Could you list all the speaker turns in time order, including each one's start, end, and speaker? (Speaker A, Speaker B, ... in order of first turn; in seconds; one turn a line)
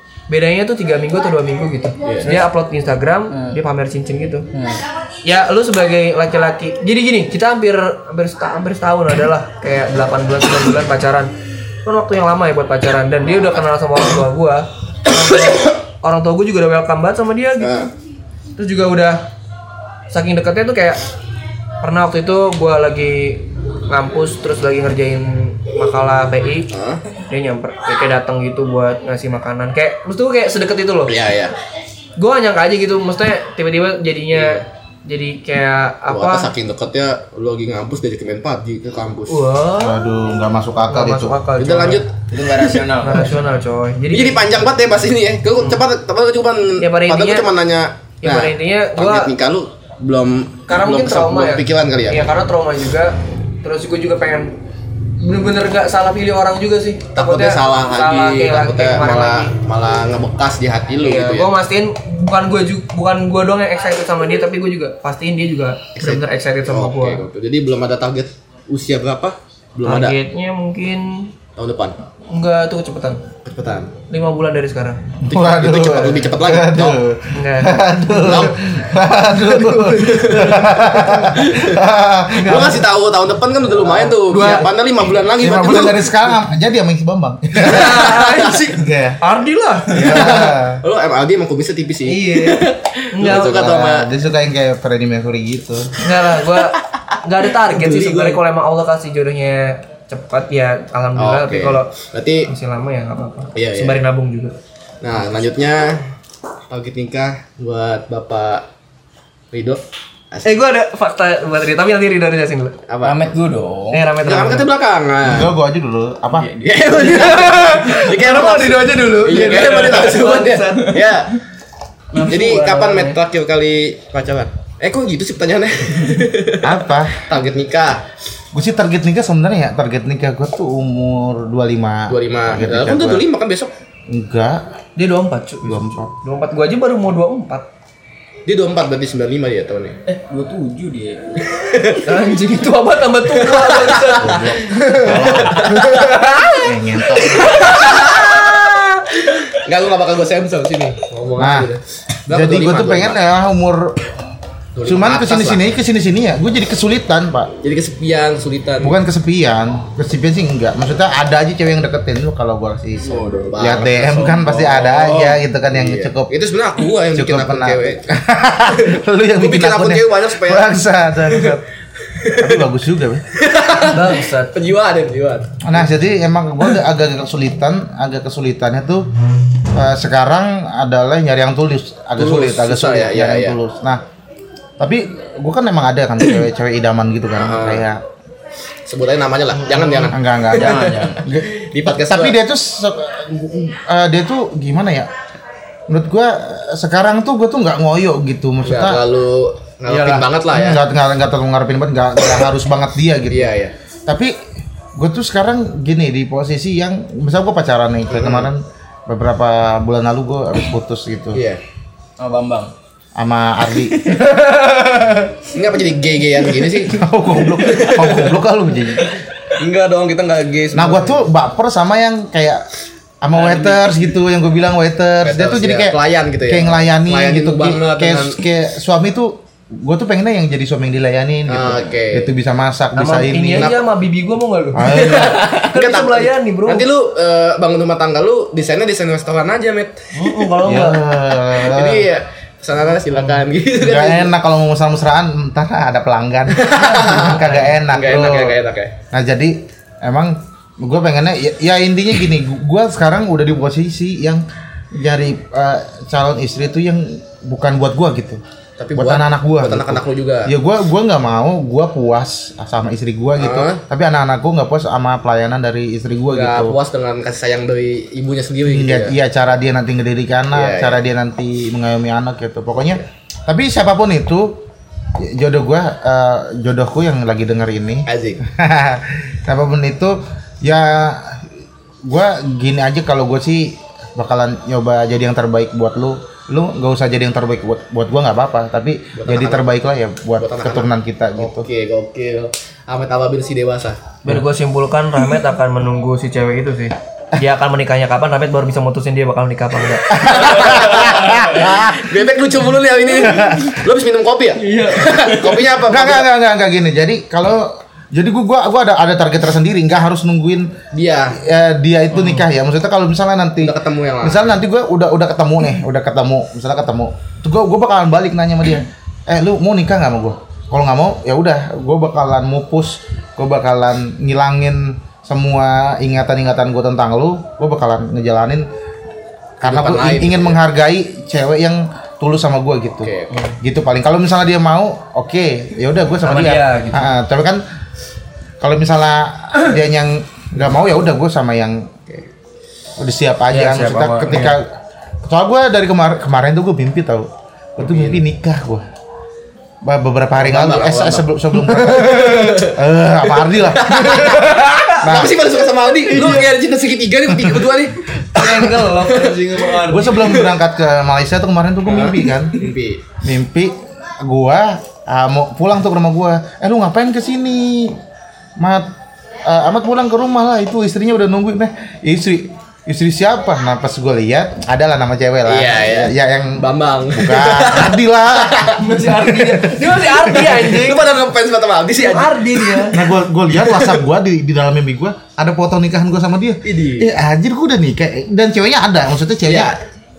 Speaker A: 0.3-4.5
Speaker B: 2.0-2.4
Speaker C: 3.3-3.6
Speaker C: 4.5-4.8
Speaker A: 5.2-11.3
Speaker A: 11.8-17.9
Speaker B: 17.6-17.9
Speaker A: 18.6-19.2
Speaker A: 20.1-21.0
Speaker A: 21.8-26.7
Speaker B: 26.7-27.0
Speaker A: 27.3-31.1
Speaker B: 31.1-31.5
Speaker A: 32.2-36.5
Speaker B: 34.3-34.6
Speaker B: 36.1-39.4
Speaker A: 39.3-40.0
Speaker D: 39.8-41.4
Speaker A: 40.9-42.0
Speaker B: 41.6-42.8
Speaker C: 42.3-43.4
Speaker A: 43.0-44.5
Speaker B: 44.1-52.3
Speaker A: 46.8-47.5
Speaker A: 48.2-49.3
Speaker A: 50.7-54.5
Speaker A: 55.2-59.5
Speaker B: 57.1-61.5
Speaker A: 61.0-67.2
Speaker B: 66.0-70.1
Speaker A: 69.8-71.3
Speaker B: 71.5-72.0
Speaker A: 72.3-73.2
Speaker B: 73.4-73.9
Speaker A: 74.1-75.0
Speaker D: 75.2-82.8
Speaker B: 75.2-77.0
Speaker A: 77.3-78.5
Speaker B: 78.2-78.6
Speaker A: 79.3-80.4
Speaker B: 80.0-81.8
Speaker A: 82.4-82.8
Speaker B: 82.4-86.2
Speaker A: 83.9-84.7
Speaker D: 85.4-89.2
Speaker A: 87.6-90.5
Speaker B: 87.7-88.6
Speaker D: 89.9-90.8
Speaker B: 90.0-94.1
Speaker A: 92.0-93.7
Speaker D: 93.3-96.0
Speaker A: 96.0-101.9
Speaker B: 97.6-98.4
Speaker B: 101.2-102.5
Speaker A: 102.5-104.5
Speaker B: 103.5-104.0
Speaker B: 105.0-106.0
Speaker B: 106.7-108.7
Speaker B: 109.5-110.6
Speaker A: 110.4-112.8
Speaker B: 112.9-113.3
Speaker C: 113.0-114.1
Speaker A: 113.9-114.7
Speaker B: 114.2-115.5
Speaker D: 115.2-116.5
Speaker C: 116.4-117.2
Speaker B: 116.6-121.3
Speaker A: 117.0-121.0
Speaker A: 122.1-123.2
Speaker B: 122.2-128.0
Speaker D: 126.6-127.2
Speaker D: 128.5-133.2
Speaker B: 132.1-133.7
Speaker D: 134.1-134.6
Speaker A: 134.9-137.7
Speaker D: 135.6-136.1
Speaker B: 138.4-140.0
Speaker C: 140.1-141.4
Speaker B: 141.5-142.0
Speaker A: 142.0-146.6
Speaker B: 143.4-144.4
Speaker D: 144.2-145.7
Speaker B: 145.4-146.1
Speaker D: 146.5-147.7
Speaker B: 147.3-153.2
Speaker D: 151.4-151.7
Speaker D: 152.3-154.0
Speaker B: 154.7-155.6
Speaker D: 154.8-157.5
Speaker B: 157.6-159.0
Speaker D: 158.8-166.3
Speaker C: 163.0-165.3
Speaker B: 163.4-168.1
Speaker D: 167.1-171.6
Speaker B: 168.7-171.6
Speaker B: 172.2-172.6
Speaker D: 172.4-173.2
Speaker B: 173.3-175.9
Speaker A: 173.8-174.5
Speaker D: 175.6-179.1
Speaker D: 179.7-184.0
Speaker B: 182.2-183.6
Speaker D: 184.8-188.0
Speaker B: 187.4-187.8
Speaker B: 188.9-192.4
Speaker A: 189.7-190.1
Speaker D: 190.1-195.1
Speaker C: 190.5-191.2
Speaker D: 195.9-199.0
Speaker B: 198.6-200.8
Speaker A: 199.9-200.2
Speaker D: 200.4-203.6
Speaker B: 203.3-203.7
Speaker D: 204.1-204.4
Speaker D: 204.9-211.4
Speaker B: 208.1-208.5
Speaker B: 211.3-211.6
Speaker C: 212.2-212.7
Speaker D: 213.2-214.1
Speaker A: 214.2-215.2
Speaker B: 215.5-217.0
Speaker D: 216.9-219.1
Speaker B: 217.6-218.4
Speaker B: 219.6-221.3
Speaker D: 220.7-222.7
Speaker D: 223.2-233.7
Speaker B: 223.4-223.7
Speaker B: 225.2-228.4
Speaker B: 231.5-232.3
Speaker A: 232.9-236.8
Speaker B: 233.5-233.8
Speaker D: 234.7-235.5
Speaker B: 234.9-240.5
Speaker A: 240.1-241.0
Speaker D: 240.6-242.1
Speaker B: 241.6-244.3
Speaker D: 243.8-248.6
Speaker B: 246.5-248.9
Speaker A: 247.1-247.7
Speaker D: 249.1-258.4
Speaker B: 258.8-260.5
Speaker D: 258.9-266.8
Speaker B: 263.4-263.8
Speaker B: 266.3-269.1
Speaker D: 268.6-274.6
Speaker B: 270.5-271.0
Speaker D: 275.2-281.4
Speaker B: 278.1-278.4
Speaker D: 282.0-291.7
Speaker B: 289.1-289.7
Speaker B: 290.4-294.0
Speaker A: 294.2-301.0
Speaker D: 300.1-302.1
Speaker B: 300.2-306.3
Speaker D: 303.1-303.8
Speaker A: 304.6-305.6
Speaker D: 305.9-310.8
Speaker B: 310.9-311.4
Speaker D: 311.4-328.7
Speaker A: 312.1-312.4
Speaker B: 313.6-314.6
Speaker D: 329.6-337.6
Speaker B: 329.6-330.6
Speaker B: 333.0-333.3
Speaker A: 333.3-333.6
Speaker A: 336.2-337.1
Speaker D: 338.6-341.9
Speaker D: 343.0-348.8
Speaker A: 343.5-344.6
Speaker B: 347.8-348.2
Speaker D: 349.8-354.0
Speaker B: 350.4-351.3
Speaker B: 351.9-352.8
Speaker A: 352.0-352.6
Speaker B: 353.6-359.6
Speaker A: 353.9-355.1
Speaker D: 355.0-355.3
Speaker A: 356.0-356.5
Speaker A: 358.3-360.4
Speaker D: 359.9-362.7
Speaker B: 360.1-360.5
Speaker B: 361.9-363.0
Speaker D: 363.2-368.0
Speaker D: 368.6-368.9
Speaker D: 369.4-380.5
Speaker B: 375.4-379.0
Speaker A: 378.8-381.1
Speaker B: 380.2-383.0
Speaker A: 382.0-382.9
Speaker D: 382.9-389.8
Speaker B: 383.5-384.0
Speaker B: 386.6-387.1
Speaker B: 389.4-389.8